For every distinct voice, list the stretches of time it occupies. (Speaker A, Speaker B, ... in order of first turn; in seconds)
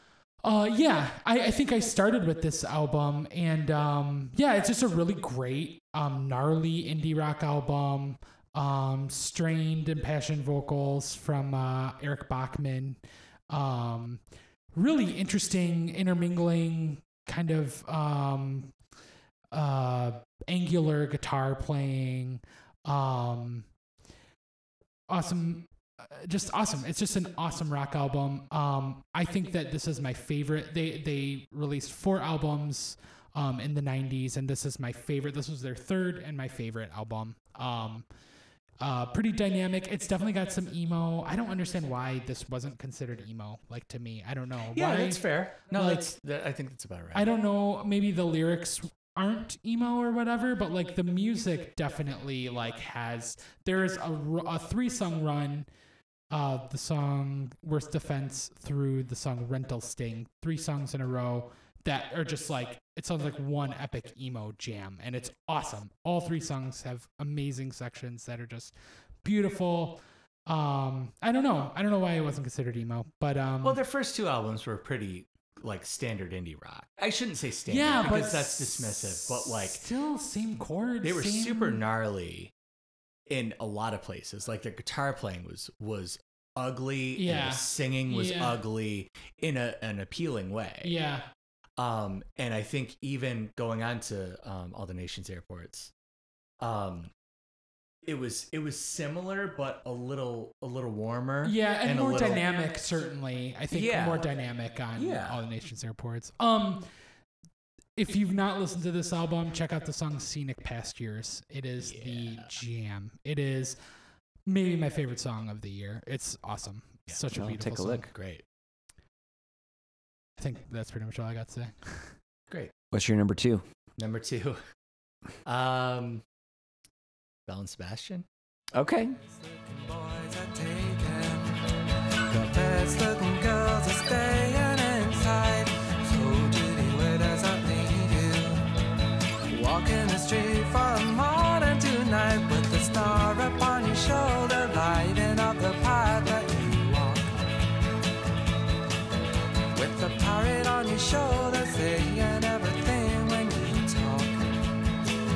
Speaker A: 0.4-14.2, 14.7-18.8, 19.5-23.7, 25.1-38.1, 38.8-46.1, 47.1-55.7, 56.3-73.8, 77.7-81.8, 87.2-88.6, 90.8-91.3, 101.4-106.9, 108.0-113.8, 114.5-118.0, 120.4-122.2
Speaker B: 44.7-47.3, 73.6-79.8, 81.0-82.5, 83.3-91.0, 91.8-95.9, 96.6-97.1, 98.0-102.5, 103.7-104.2, 105.0-105.4, 111.8-112.5, 117.1-118.5, 124.0-124.6, 125.4-126.2, 127.5-128.3
Speaker C: 117.3-118.1, 122.9-123.6, 128.7-129.2
Speaker D: 129.4-131.7, 132.3-138.6, 139.5-147.5, 149.8-154.5